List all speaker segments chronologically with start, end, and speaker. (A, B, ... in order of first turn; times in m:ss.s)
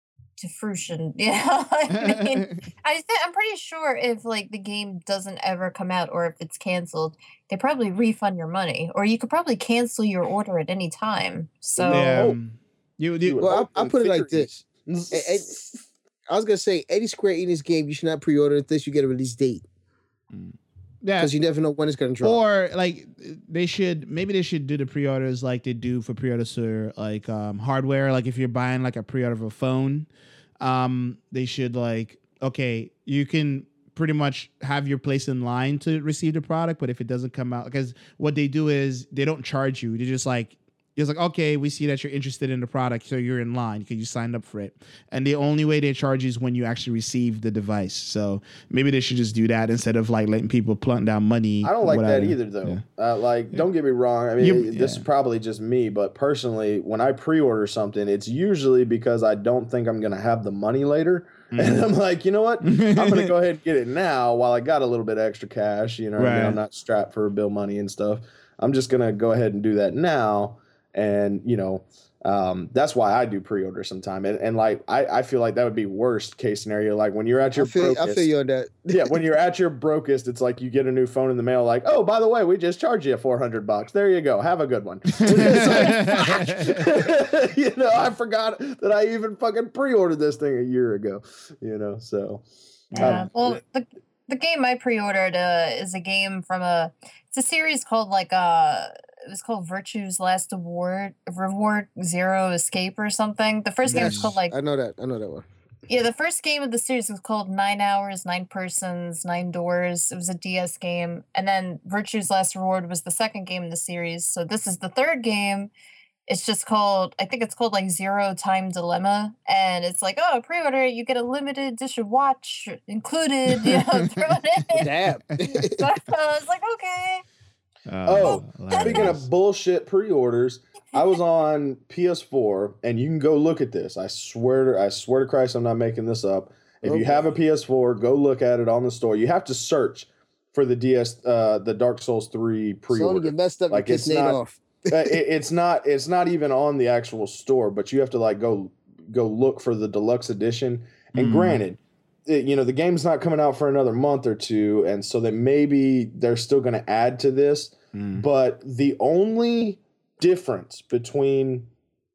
0:00.4-0:12.1 A
0:01.9-0:02.7 B
0:11.8-0:12.4 C
0:11.9-0:13.5 B
0:13.2-0:15.8 C
0:13.4-0:14.5 D
0:15.1-0:15.5 D
0:16.3-0:19.7 D
0:20.3-0:21.3 B
0:21.2-0:22.4 D
0:22.2-0:30.1 B
0:30.6-0:52.8 B
0:51.6-1:18.3 C
0:54.4-0:55.0 B
1:01.5-1:01.8 B
1:02.6-1:03.3 B
1:06.2-1:06.6 B
1:17.6-1:18.9 D
1:18.9-1:33.6 C
1:25.2-1:26.8 B
1:32.9-1:33.3 B
1:33.0-1:44.6 A
1:43.9-1:44.4 B
1:43.9-1:45.4 D
1:45.9-1:55.7 A
1:56.3-2:04.9 A
2:03.5-2:04.0 B
2:04.7-2:05.9 D
2:05.4-2:05.7 B
2:05.6-2:07.2 A
2:07.9-2:09.3 B
2:08.1-2:41.7 C
2:08.2-2:09.1 A
2:16.8-2:17.2 D
2:22.9-2:25.2 D
2:31.2-2:31.6 B
2:37.9-2:38.2 B